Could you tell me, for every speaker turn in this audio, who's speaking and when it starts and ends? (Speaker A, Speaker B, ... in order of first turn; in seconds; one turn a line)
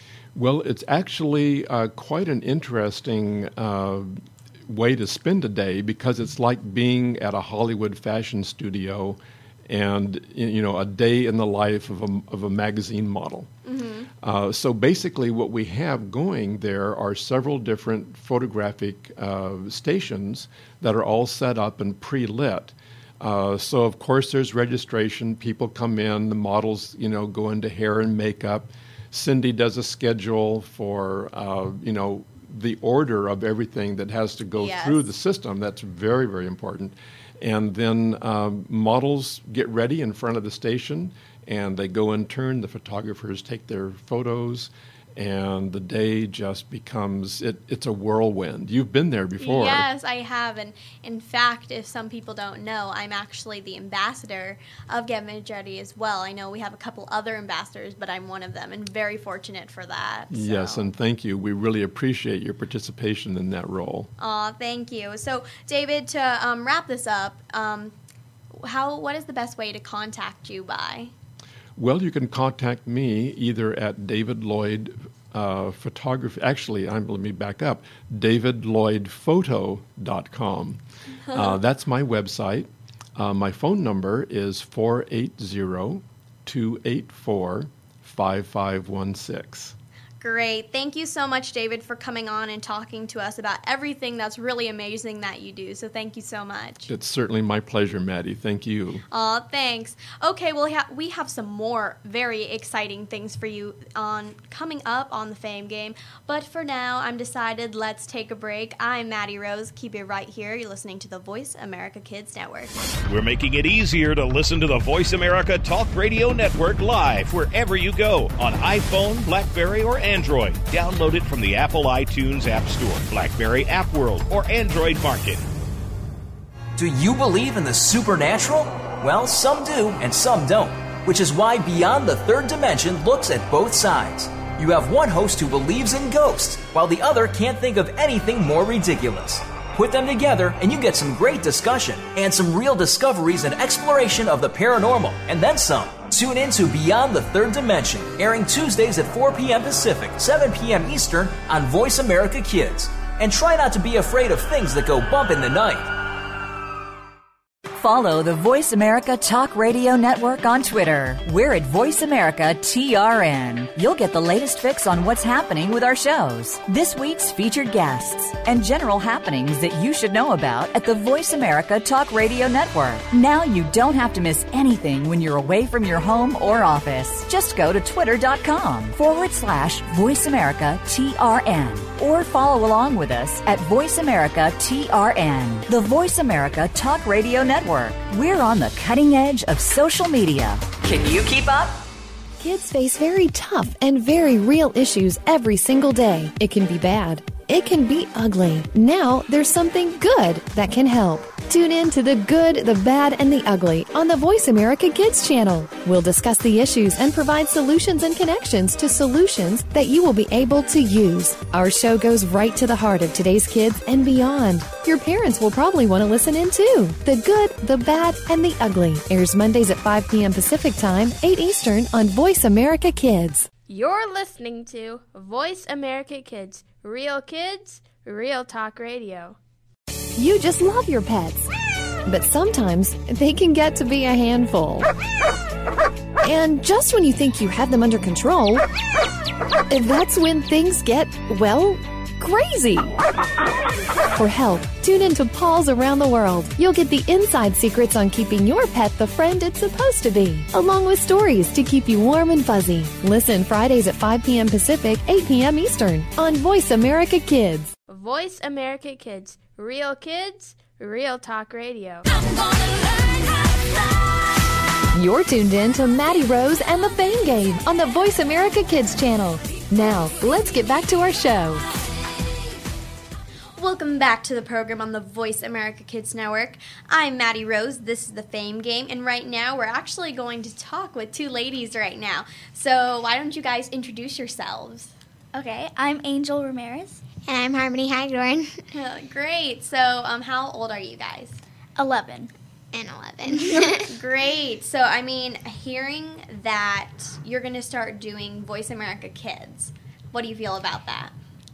Speaker A: 0.3-13.5
Speaker B: 13.7-14.1
Speaker A: 14.2-49.9
Speaker B: 34.6-35.1
Speaker B: 49.4-60.9
Speaker A: 60.3-64.1
Speaker B: 64.2-67.9
Speaker B: 68.5-71.1
Speaker A: 71.8-89.8
Speaker B: 90.2-96.9
Speaker A: 96.9-99.0
Speaker B: 99.1-112.7
Speaker C: 113.1-125.5
Speaker D: 126.8-155.9
Speaker E: 157.8-191.8
Speaker F: 192.4-223.5
Speaker G: 223.7-229.4
Speaker F: 230.2-231.5
Speaker F: 232.1-234.9
Speaker F: 236.2-238.6
Speaker F: 239.7-242.9
Speaker F: 244.1-257.7
Speaker G: 257.9-262.1
Speaker F: 264.9-271.6
Speaker B: 273.6-284.9
Speaker H: 285.3-287.1
Speaker I: 287.2-288.6
Speaker B: 288.7-291.4
Speaker H: 291.8-292.3
Speaker I: 292.7-293.9
Speaker H: 293.3-293.7
Speaker B: 293.9-301.1